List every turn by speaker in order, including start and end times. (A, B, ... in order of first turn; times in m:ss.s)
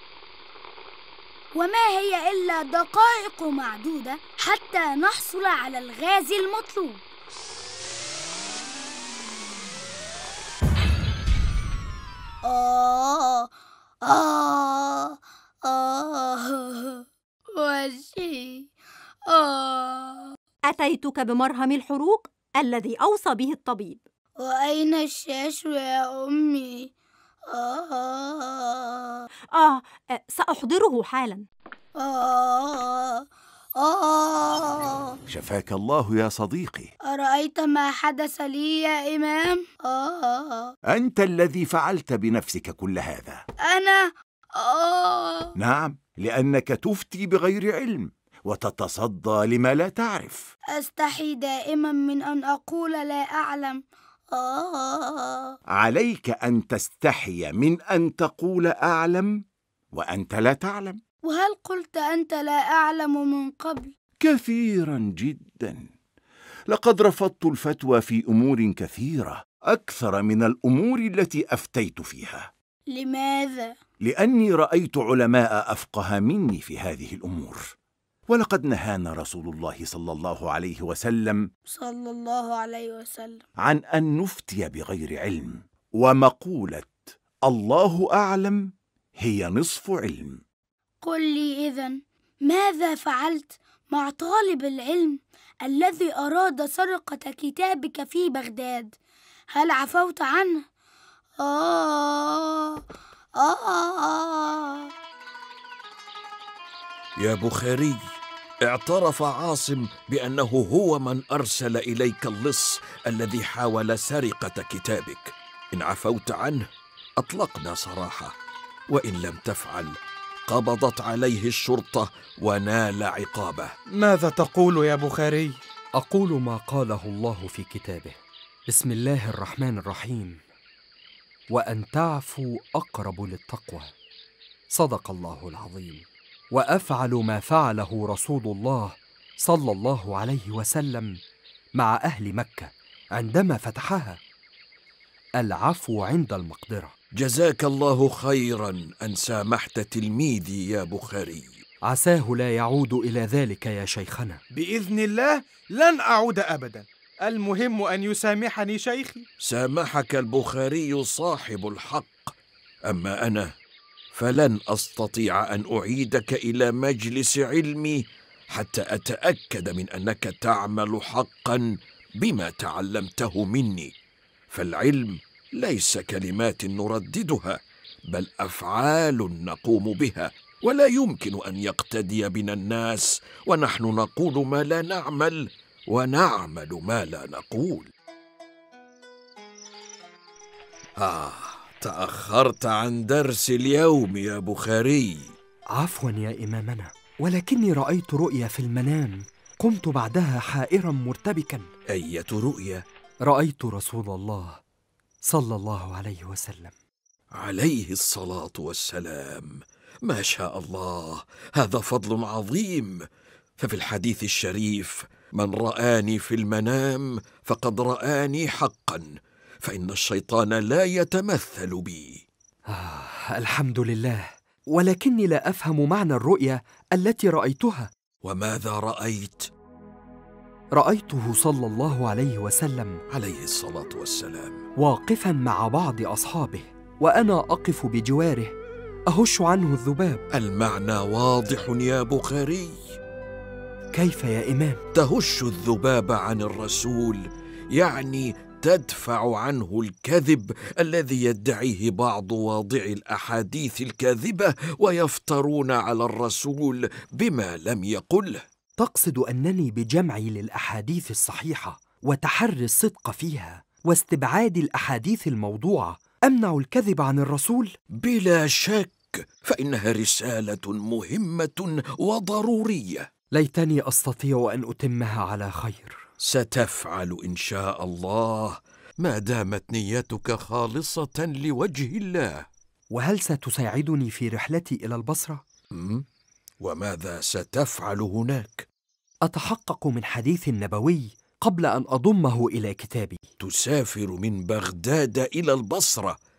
0:01.5-0:07.0 A
0:12.4-0:13.5 A
0:14.0-0:18.7 A
0:19.3-0:20.3 A
0:20.7-0:24.0 B
0:24.4-0:26.9 A
0:27.5-0:29.2 A
0:29.5-0:31.4 B
0:32.0-0:35.2 A
0:35.3-0:36.9 C
0:37.0-0:40.7 A
0:40.9-0:43.4 C
0:43.7-0:45.5 A
0:45.6-0:50.4 C
0:50.7-0:55.5 A
0:55.8-0:59.4 C
0:59.9-1:01.0 C
1:01.2-1:03.9 A
1:04.2-1:05.8 C
1:06.7-1:12.5 C
1:12.9-1:13.8 A
1:14.0-1:17.6 C
1:18.3-1:21.4 C
1:21.7-1:23.4 A
1:23.6-1:28.6 C
1:29.2-1:30.4 C
1:31.0-1:39.0 A
1:39.5-1:40.6 A
1:41.4-1:42.8 A
1:43.4-1:44.9 A
1:47.2-1:48.0 D
1:48.6-1:56.7 D
1:57.2-1:58.3 D
1:58.9-1:59.9 D
2:00.5-2:03.7 D
2:03.9-2:05.6 E
2:06.0-2:08.1 F
2:08.7-2:10.4 F
2:11.5-2:13.9 F
2:14.7-2:21.2 F
2:21.8-2:24.2 F
2:25.4-2:26.9 F
2:27.2-2:31.5 D
2:31.9-2:34.4 F
2:34.5-2:39.3 E
2:39.4-2:42.3 D
2:42.9-2:43.5 D
2:44.1-2:53.9 D
2:54.5-2:57.6 D
2:58.1-3:07.9 D
3:11.0-3:15.3 D
3:15.8-3:21.7 F
3:21.9-3:22.8 D
3:23.3-3:24.6 F
3:25.3-3:26.7 F
3:27.4-3:33.0 D
3:33.6-3:39.1 D
3:39.6-3:42.2 D
3:42.7-3:47.9 F
3:48.2-3:49.5 D
3:50.8-3:53.0 F
3:53.1-3:54.6 D
3:54.8-3:58.6 F
3:59.1-4:00.2 F
4:00.3-4:02.8 D
4:04.0-4:04.8 F
4:04.9-4:18.4 D
4:18.8-4:27.8 F
4:28.0-4:33.1 D
4:33.3-4:36.0 F
4:36.2-4:42.5 D
4:42.9-4:45.4 F
4:45.7-4:46.0 D
4:46.6-4:48.7 D
4:49.3-4:53.2 F
4:53.4-4:56.2 D